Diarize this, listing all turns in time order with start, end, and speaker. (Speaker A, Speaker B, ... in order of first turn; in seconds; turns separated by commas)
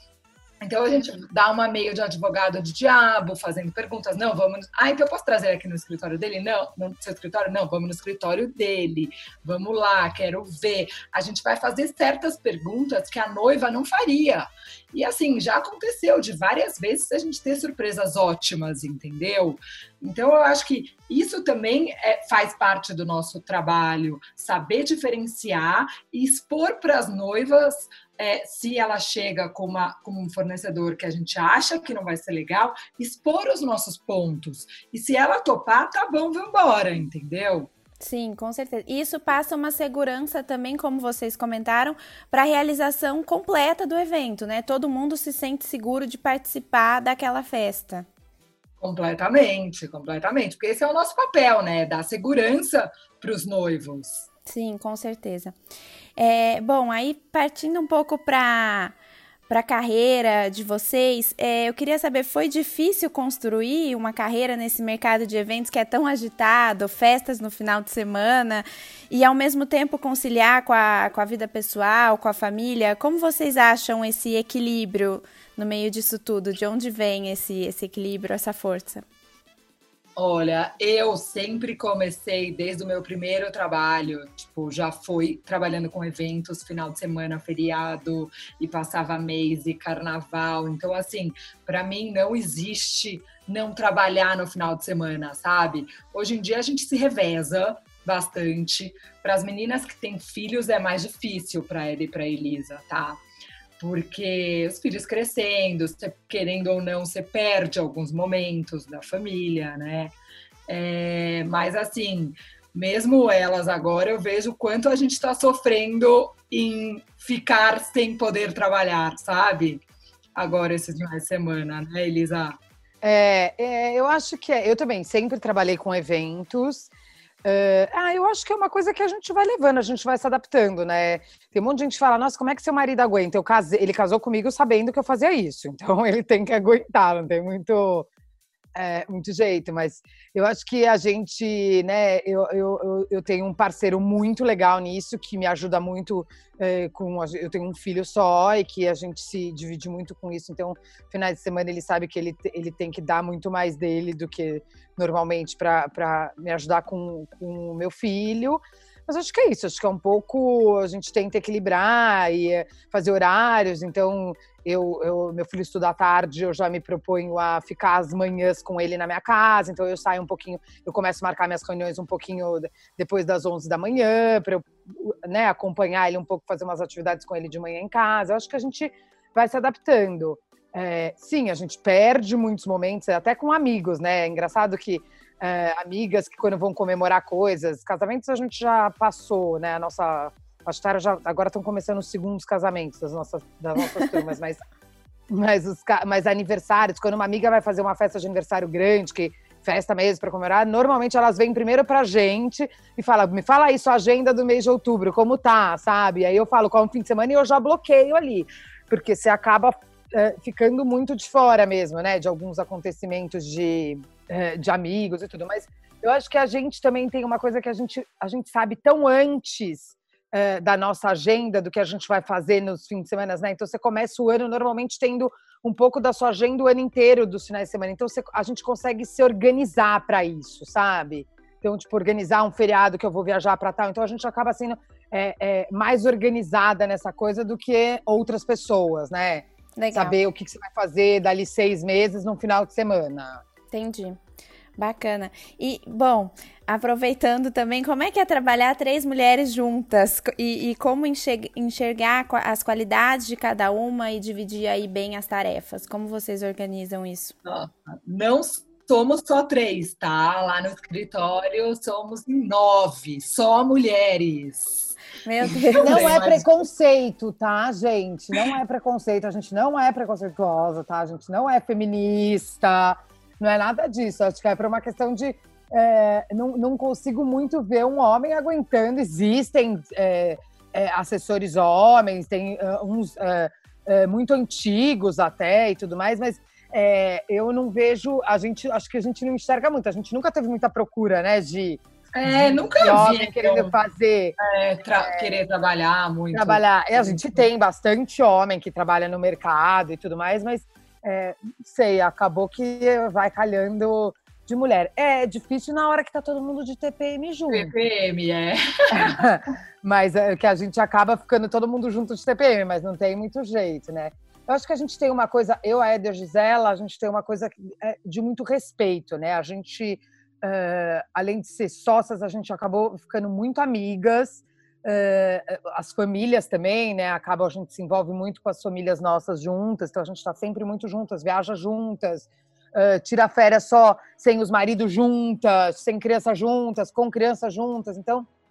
Speaker A: 0.6-37.7, Speaker B: 38.0-48.1, Speaker A: 48.8-54.3, Speaker B: 54.5-55.5, Speaker B: 56.2-58.9, Speaker B: 59.5-79.0, Speaker A: 80.2-103.2, Speaker A: 103.8-110.1, Speaker A: 110.7-119.8, Speaker A: 120.3-122.5, Speaker C: 123.0-126.9, Speaker C: 127.4-138.1, Speaker C: 138.7-194.6, Speaker C: 195.3-243.4, Speaker B: 239.8-240.2, Speaker B: 243.7-244.2, Speaker B: 244.8-257.3, Speaker A: 257.4-266.5, Speaker B: 265.2-266.1, Speaker C: 265.8-294.4, Speaker A: 292.1-293.7, Speaker A: 294.4-297.4, Speaker C: 295.0-295.3, Speaker C: 296.3-307.7, Speaker A: 307.5-309.2, Speaker C: 308.9-338.3